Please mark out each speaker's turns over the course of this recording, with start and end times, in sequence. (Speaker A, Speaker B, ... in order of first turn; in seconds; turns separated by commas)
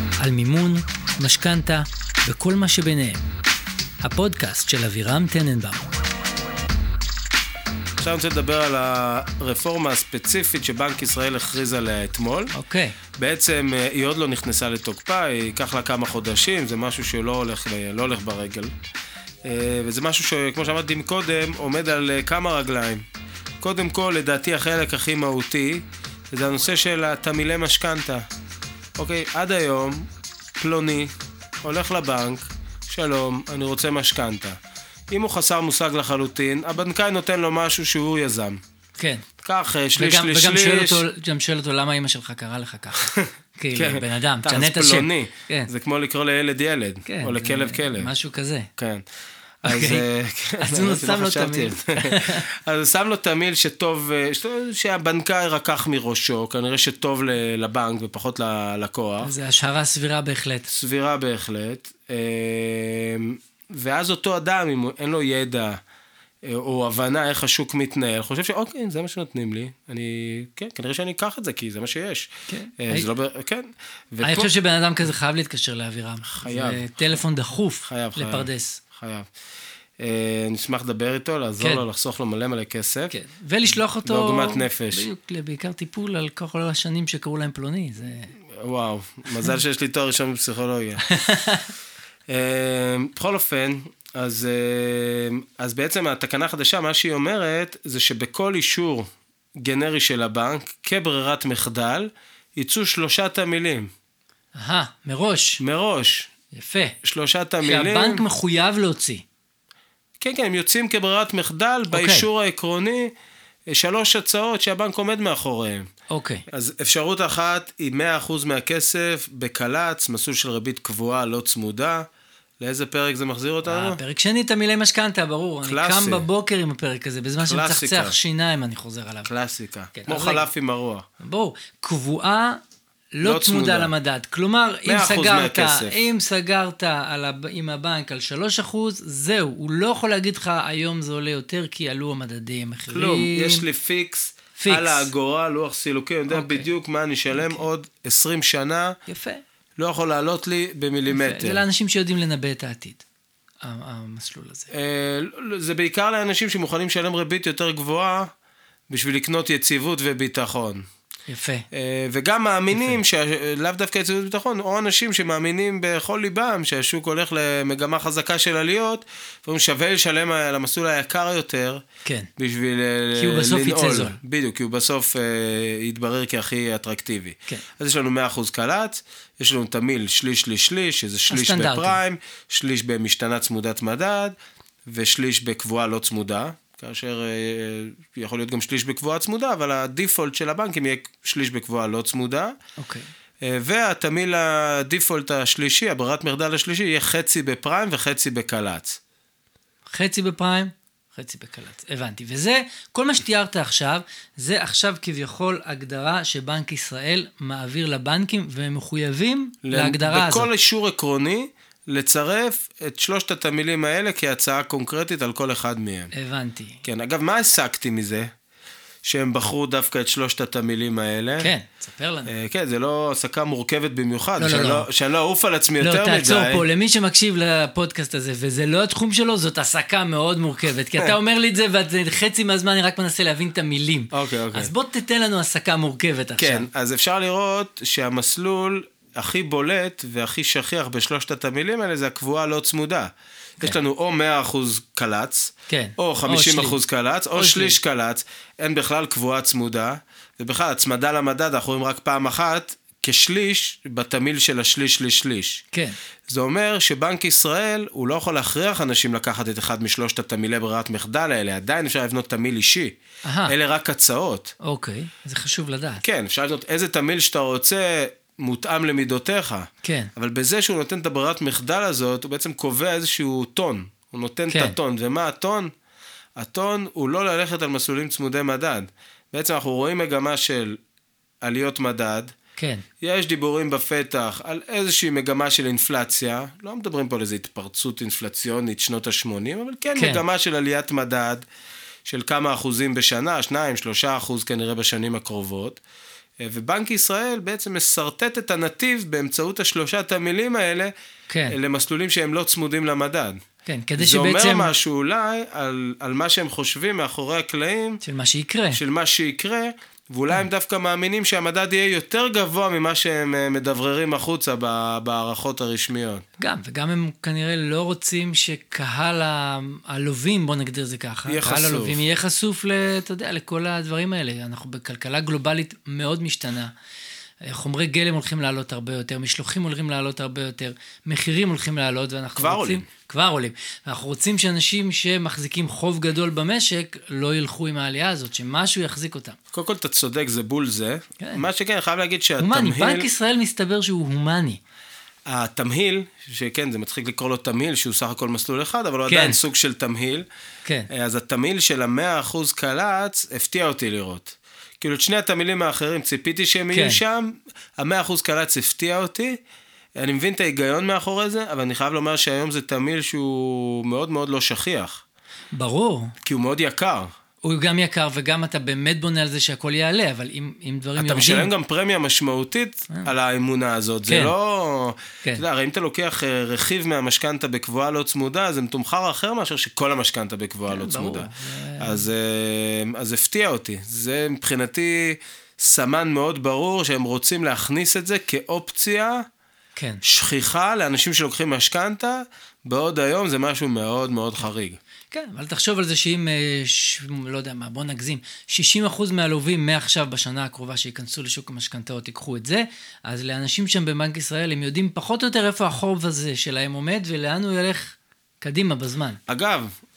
Speaker A: 0.2-3.3, Speaker A: 4.0-5.9, Speaker B: 8.0-12.5, Speaker A: 12.5-13.0, Speaker B: 13.2-18.7, Speaker B: 19.4-23.0, Speaker B: 23.6-28.3, Speaker B: 29.0-30.1, Speaker B: 30.6-34.6, Speaker B: 35.1-38.6, Speaker A: 39.0-39.2, Speaker B: 39.4-41.0, Speaker A: 40.0-45.7, Speaker B: 43.0-48.1, Speaker A: 47.0-48.7, Speaker B: 48.8-49.0, Speaker B: 49.6-59.3, Speaker A: 49.7-50.0, Speaker A: 50.6-52.5, Speaker A: 59.2-60.7, Speaker B: 60.7-65.8, Speaker B: 66.4-74.5, Speaker A: 72.5-73.1, Speaker A: 74.2-78.8, Speaker B: 76.2-77.1, Speaker B: 77.9-79.3, Speaker B: 80.0-83.1, Speaker A: 83.1-88.3, Speaker B: 83.9-85.1, Speaker B: 88.6-91.1, Speaker A: 91.1-91.7, Speaker B: 92.3-103.9, Speaker A: 104.5-105.6, Speaker B: 105.6-106.3, Speaker A: 106.5-107.0, Speaker B: 107.0-108.2, Speaker A: 107.6-109.2, Speaker B: 110.2-113.1, Speaker A: 111.9-112.3, Speaker B: 113.7-115.9, Speaker A: 116.1-116.4, Speaker B: 116.5-122.1, Speaker B: 122.6-124.0, Speaker A: 123.6-129.3, Speaker B: 125.6-126.3, Speaker B: 127.4-128.2, Speaker B: 129.2-131.1, Speaker A: 129.9-130.5, Speaker A: 131.2-132.6, Speaker A: 133.1-143.7, Speaker B: 133.2-133.9, Speaker B: 134.9-136.1, Speaker B: 142.9-149.0, Speaker A: 144.6-145.1, Speaker A: 146.3-146.7, Speaker A: 147.3-147.7, Speaker A: 149.1-149.4, Speaker B: 149.8-151.6, Speaker A: 151.1-153.0, Speaker A: 153.6-154.7, Speaker B: 154.7-158.3, Speaker B: 158.9-160.8, Speaker A: 161.3-161.7, Speaker B: 161.7-171.8, Speaker A: 162.7-163.0, Speaker B: 172.4-184.3, Speaker A: 173.2-174.2, Speaker A: 181.3-182.0, Speaker B: 184.9-192.6, Speaker A: 192.8-193.1, Speaker B: 193.4-199.0, Speaker A: 199.9-210.5, Speaker B: 209.7-216.1, Speaker A: 216.1-216.8, Speaker B: 216.8-218.3, Speaker B: 219.0-221.5, Speaker A: 221.4-222.3, Speaker B: 222.3-226.7, Speaker A: 224.4-224.9, Speaker A: 225.8-236.7, Speaker B: 234.1-234.7, Speaker B: 236.4-255.6, Speaker A: 245.7-246.8, Speaker A: 247.3-247.8, Speaker A: 255.7-256.0, Speaker B: 256.3-264.5, Speaker A: 263.2-263.5, Speaker A: 264.6-266.0, Speaker B: 266.0-275.7, Speaker A: 269.8-270.1, Speaker A: 274.5-274.8, Speaker B: 276.4-280.8, Speaker B: 281.4-282.3, Speaker A: 282.6-282.9, Speaker B: 283.0-291.4, Speaker A: 289.9-290.2, Speaker B: 292.1-295.8, Speaker B: 296.4-300.9, Speaker A: 301.3-301.6, Speaker B: 301.5-303.4, Speaker A: 303.6-304.7, Speaker B: 304.0-308.0, Speaker A: 308.0-308.8, Speaker B: 308.7-316.2, Speaker A: 316.4-326.7, Speaker B: 321.3-322.0, Speaker A: 327.4-339.4, Speaker B: 332.4-332.9, Speaker B: 339.5-343.1, Speaker A: 341.2-341.4, Speaker A: 342.4-344.6, Speaker B: 345.3-350.3, Speaker A: 349.1-349.4, Speaker B: 350.9-359.4, Speaker A: 356.7-357.0, Speaker B: 360.0-365.0, Speaker A: 365.5-366.1, Speaker B: 366.2-367.1, Speaker A: 367.4-371.5, Speaker B: 371.0-389.2, Speaker A: 374.1-374.3, Speaker A: 380.7-382.1, Speaker A: 389.8-390.0, Speaker B: 390.0-394.8, Speaker A: 395.1-409.2, Speaker B: 409.3-409.7